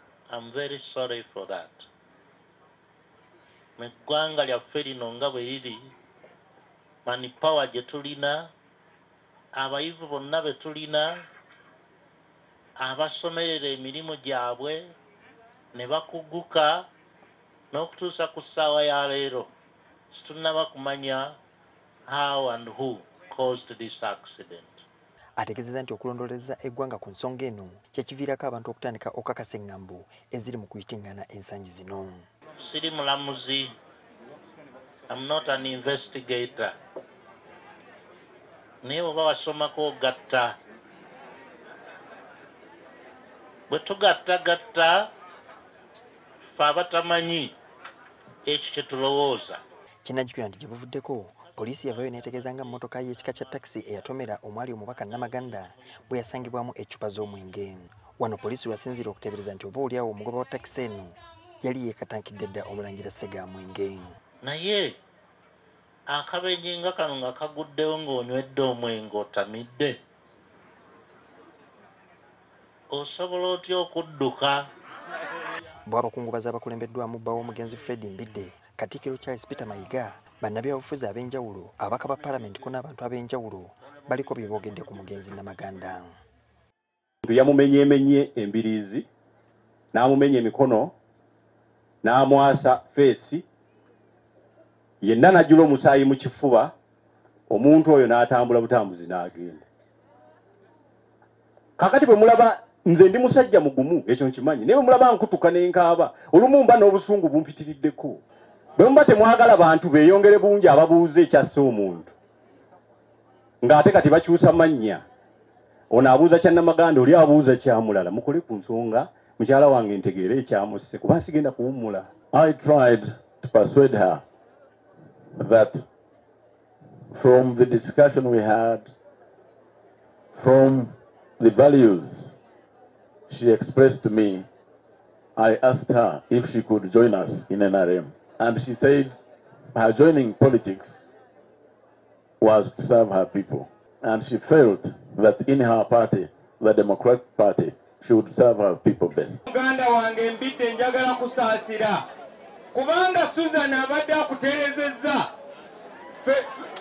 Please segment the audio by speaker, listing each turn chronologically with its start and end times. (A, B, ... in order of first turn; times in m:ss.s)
0:00.3-0:01.9 A
0:03.8-0:05.9 A
0:07.1-0:08.5 A
0:09.6-0:11.2 A
0:12.8-0:14.9 A
0:15.7-0:16.9 A
0:17.7-0:19.5 A
0:20.1-0:21.4 A
0:22.1-0:24.8 A
0:25.4-0:32.2 B
0:32.6-0:33.7 A
0:35.1-0:36.8 A
0:38.8-0:40.6 A
0:43.7-0:45.1 A
0:46.6-0:47.6 A
0:48.5-0:49.6 A
0:50.0-1:04.2 B
1:04.4-1:05.0 A
1:06.1-1:10.0 A
1:12.9-1:14.7 A
1:15.9-1:26.1 B
1:27.2-1:29.1 C
1:29.9-1:30.9 C
1:32.0-1:33.4 C
1:35.0-1:36.7 C
1:37.5-1:39.7 C
1:41.8-1:48.2 C
1:48.8-1:52.1 C
1:53.6-1:55.0 C
1:55.9-2:02.1 C
2:02.3-2:04.2 D
2:05.4-2:05.8 D
2:07.1-2:08.9 D
2:10.4-2:12.3 D
2:13.3-2:14.5 D
2:15.4-2:19.2 D
2:19.7-2:20.9 D
2:22.4-2:29.4 D
2:29.5-2:32.1 E
2:32.7-2:35.3 E